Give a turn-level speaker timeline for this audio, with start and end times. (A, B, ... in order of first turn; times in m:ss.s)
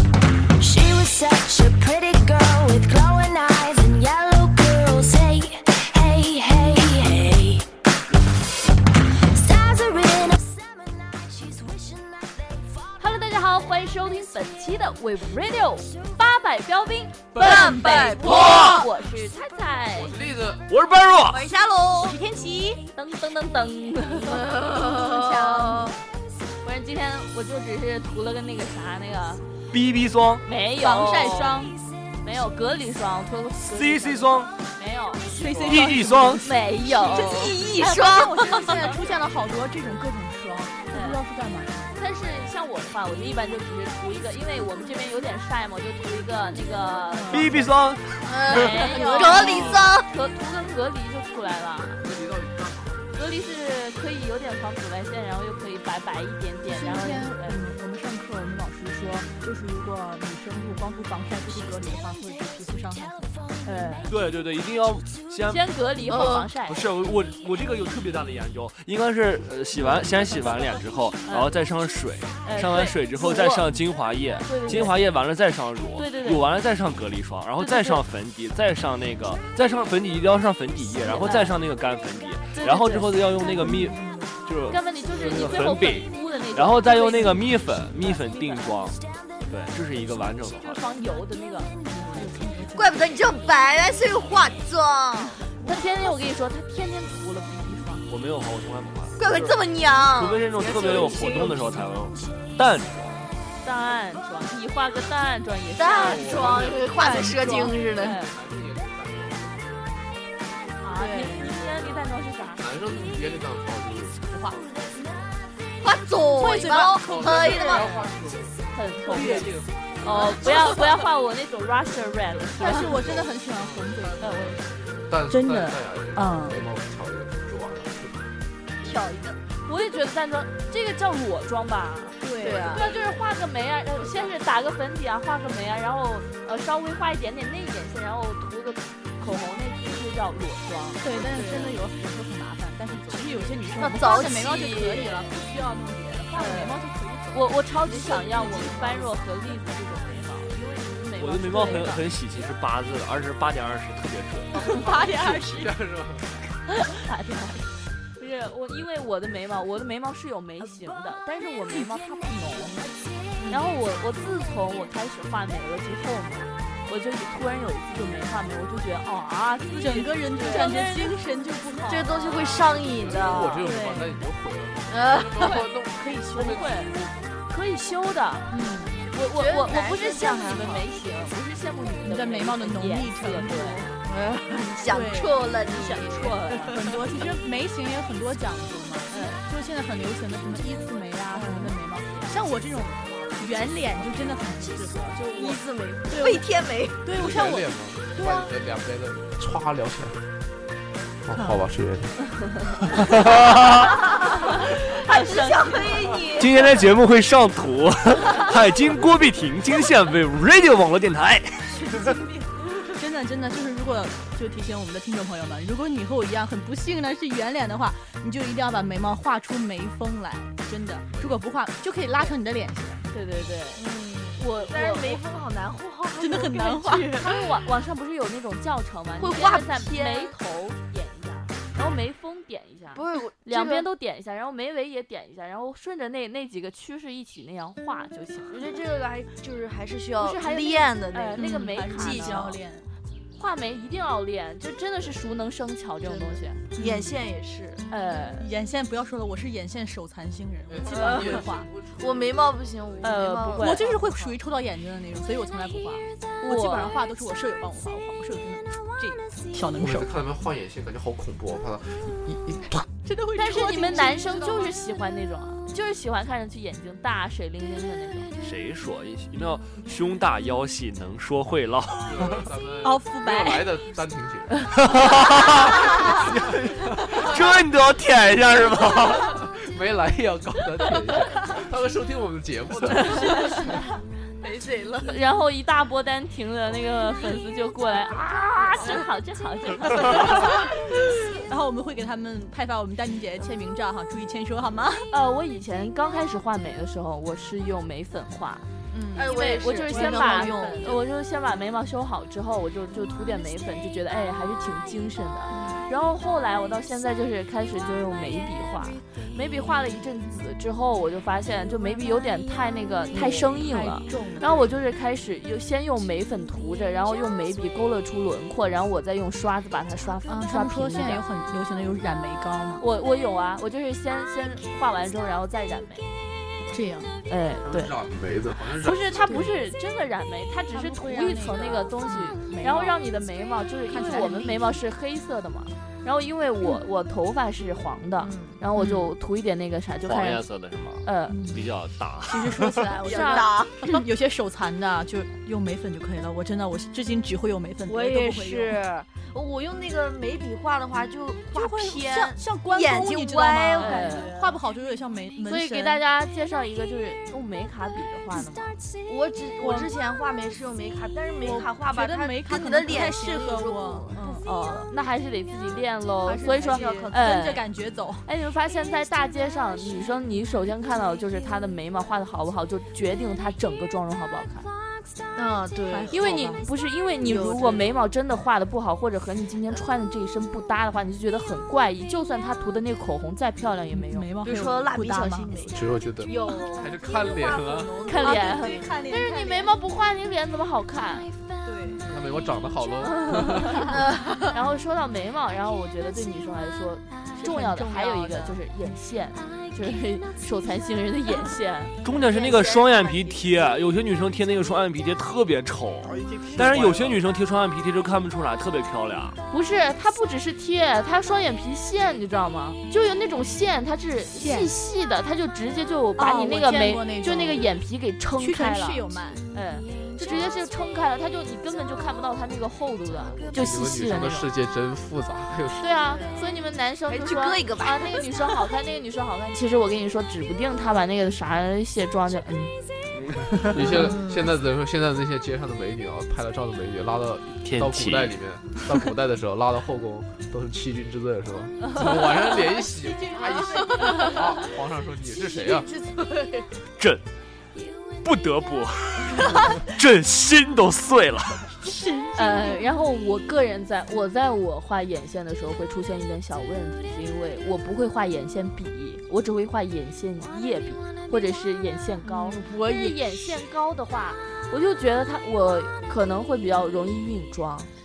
0:00.6-0:07.6 A
0:09.3-0:10.5 A
0:11.4-0:11.8 A
0:13.0-0:20.2 B
0:17.3-0:18.9 C
0:17.5-0:18.2 D
0:18.1-0:18.9 E
0:19.9-0:20.6 F
0:20.7-0:21.5 E
0:21.3-0:22.2 C
0:22.0-0:22.8 D
0:22.9-0:24.6 B
0:24.2-0:25.9 C
0:24.4-0:26.0 D
0:26.6-0:29.4 B
0:29.7-0:30.4 E
0:30.4-0:31.6 B
0:30.8-0:31.8 D
0:32.2-0:35.4 B
0:33.6-0:34.5 E
0:35.3-0:41.9 D
0:35.5-0:36.5 E
0:36.4-0:37.6 B
0:36.8-0:38.7 C
0:38.8-0:39.0 B
0:40.9-0:41.2 B
0:42.0-0:47.7 B
0:47.1-0:47.7 D
0:47.3-0:48.7 E
0:48.2-0:50.1 C
0:48.4-0:49.9 D
0:48.5-0:52.0 B
0:51.9-0:53.2 F
0:53.1-0:57.6 B
0:56.7-1:03.3 D
1:03.6-1:04.1 B
1:04.1-1:05.6 E
1:05.5-1:06.9 B
1:06.0-1:06.5 C
1:06.2-1:29.0 E
1:09.9-1:10.6 B
1:11.2-1:11.6 B
1:12.4-1:13.8 B
1:14.4-1:15.1 B
1:16.0-1:16.5 B
1:17.6-1:18.0 B
1:21.1-1:21.6 B
1:22.5-1:23.5 B
1:23.4-1:24.4 D
1:24.7-1:28.9 B
1:25.2-1:25.6 F
1:29.5-1:30.8 E
1:30.4-1:32.4 B
1:31.8-1:33.0 D
1:32.7-1:35.4 C
1:35.5-1:38.1 B
1:38.1-1:39.6 E
1:39.2-1:41.8 C
1:40.1-1:43.3 E
1:43.6-1:46.4 B
1:45.8-1:48.2 C
1:45.9-1:50.7 F
1:47.0-1:47.8 D
1:48.0-1:48.3 B
1:50.8-1:52.6 B
1:50.9-1:51.5 D
1:51.3-1:55.3 F
1:54.3-1:54.6 D
1:55.8-1:57.9 C
1:56.3-1:57.5 D
1:56.7-2:00.9 F
1:57.4-1:58.1 B
1:58.7-2:03.2 B
1:59.1-1:59.6 D
2:02.5-2:08.3 F
2:02.6-2:04.6 D
2:04.2-2:04.6 B
2:05.3-2:06.6 D
2:08.8-2:09.5 C
2:09.6-2:21.8 B
2:12.2-2:12.9 D
2:12.4-2:13.0 C
2:14.0-2:14.3 C
2:21.0-2:27.6 D
2:23.1-2:23.5 B
2:23.8-2:25.0 C
2:24.4-2:25.2 B
2:26.3-2:26.8 B
2:27.3-2:32.0 B
2:27.9-2:29.2 C
2:31.2-2:34.8 E
2:34.5-2:35.8 D
2:34.7-2:36.4 F
2:36.7-2:42.9 B
2:43.4-2:43.7 D
2:43.5-2:51.2 B
2:49.8-2:52.5 D
2:51.9-2:53.6 C
2:52.2-2:53.7 B
2:52.6-2:57.1 F
2:53.6-2:54.2 D
2:54.9-2:55.6 C
2:55.9-2:56.6 D
2:56.3-2:56.9 B
2:57.5-2:58.5 B
2:58.5-2:59.0 D
2:59.1-3:04.0 B
2:59.3-3:00.9 C
3:02.0-3:04.0 D
3:04.0-3:07.3 C
3:04.9-3:16.4 D
3:05.8-3:07.2 B
3:09.1-3:09.4 B
3:11.4-3:11.7 B
3:15.2-3:17.1 C
3:17.0-3:18.5 D
3:17.1-3:20.3 F
3:21.2-3:22.2 F
3:21.3-3:21.6 D
3:23.1-3:23.9 E
3:23.9-3:26.7 C
3:24.4-3:26.2 B
3:26.4-3:32.0 E
3:31.7-3:43.0 D
3:41.1-3:41.5 F
3:43.1-3:43.8 B
3:43.8-3:47.5 C
3:44.4-3:45.2 B
3:46.2-3:47.3 D
3:47.0-3:58.8 B
3:49.2-3:50.3 C
3:52.9-3:53.9 C
3:58.5-4:02.6 C
4:00.2-4:02.6 B
4:01.3-4:02.9 D
4:03.4-4:06.6 B
4:06.0-4:07.9 C
4:06.8-4:07.2 D
4:07.9-4:08.5 B
4:08.4-4:11.7 D
4:10.7-4:13.1 F
4:10.9-4:11.4 C
4:12.0-4:14.4 C
4:13.0-4:14.0 B
4:13.5-4:20.2 D
4:16.4-4:17.0 B
4:19.8-4:22.8 F
4:23.0-4:24.7 D
4:23.4-4:28.3 B
4:28.4-4:32.4 E
4:32.0-4:36.3 F
4:32.8-4:33.7 D
4:34.7-4:39.4 E
4:36.8-4:37.2 F
4:39.2-4:43.7 F
4:43.1-4:43.6 D
4:43.3-4:43.6 B
4:44.4-4:45.0 C
4:44.4-4:45.0 D
4:45.0-4:50.7 B
4:50.1-4:50.7 D
4:51.3-4:55.1 D
4:55.1-4:58.6 B
4:58.9-5:01.0 D
4:59.1-5:01.0 C
4:59.2-5:21.2 B
5:05.5-5:05.8 C
5:13.1-5:14.6 D
5:14.2-5:14.6 C
5:20.2-5:22.8 D
5:22.8-5:26.1 B
5:26.7-5:27.1 D
5:27.3-5:27.9 B
5:27.6-5:29.2 F
5:28.6-5:40.5 B
5:29.2-5:29.5 D
5:30.7-5:33.0 D
5:33.9-5:34.8 D
5:38.2-5:38.6 C
5:38.7-5:39.0 D
5:40.0-5:42.9 E
5:41.0-5:41.5 B
5:41.3-5:41.6 D
5:42.2-5:48.8 D
5:42.8-5:44.0 C
5:43.0-5:43.5 B
5:47.9-5:54.5 C
5:51.5-5:56.0 D
5:53.8-5:54.4 B
5:55.4-5:58.8 B
5:59.0-6:04.8 C
5:59.6-5:59.9 D
6:01.4-6:04.4 D
6:04.4-6:07.6 B
6:06.2-6:08.2 D
6:06.4-6:07.5 C
6:08.2-6:14.7 B
6:15.4-6:16.2 C
6:15.9-6:16.7 D
6:16.1-6:24.4 B
6:17.2-6:18.0 C
6:23.9-6:25.5 D
6:24.4-6:28.9 C
6:25.7-6:28.1 F
6:28.0-6:31.3 B
6:28.1-6:29.8 D
6:31.6-6:32.0 D
6:32.0-6:33.9 F
6:33.0-6:34.0 B
6:33.9-6:34.5 C
6:34.5-6:42.0 B
6:37.4-6:38.6 D
6:42.0-6:49.4 E
6:42.1-6:43.6 C
6:46.1-6:47.2 F
6:49.5-7:04.5 B
6:54.3-6:54.7 D
6:56.2-6:57.7 D
6:58.4-6:59.4 D
7:03.2-7:06.1 F
7:05.8-7:12.7 B
7:07.1-7:08.6 C
7:13.1-7:13.9 E
7:13.5-7:25.9 F
7:13.8-7:14.5 C
7:17.6-7:19.0 E
7:21.8-7:22.1 B
7:22.5-7:24.6 D
7:23.7-7:24.7 C
7:25.2-7:26.7 C
7:27.0-7:27.2 E
7:28.2-7:31.7 E
7:31.8-7:32.9 D
7:32.3-7:47.9 B
7:42.2-7:42.8 D
7:42.6-7:43.2 C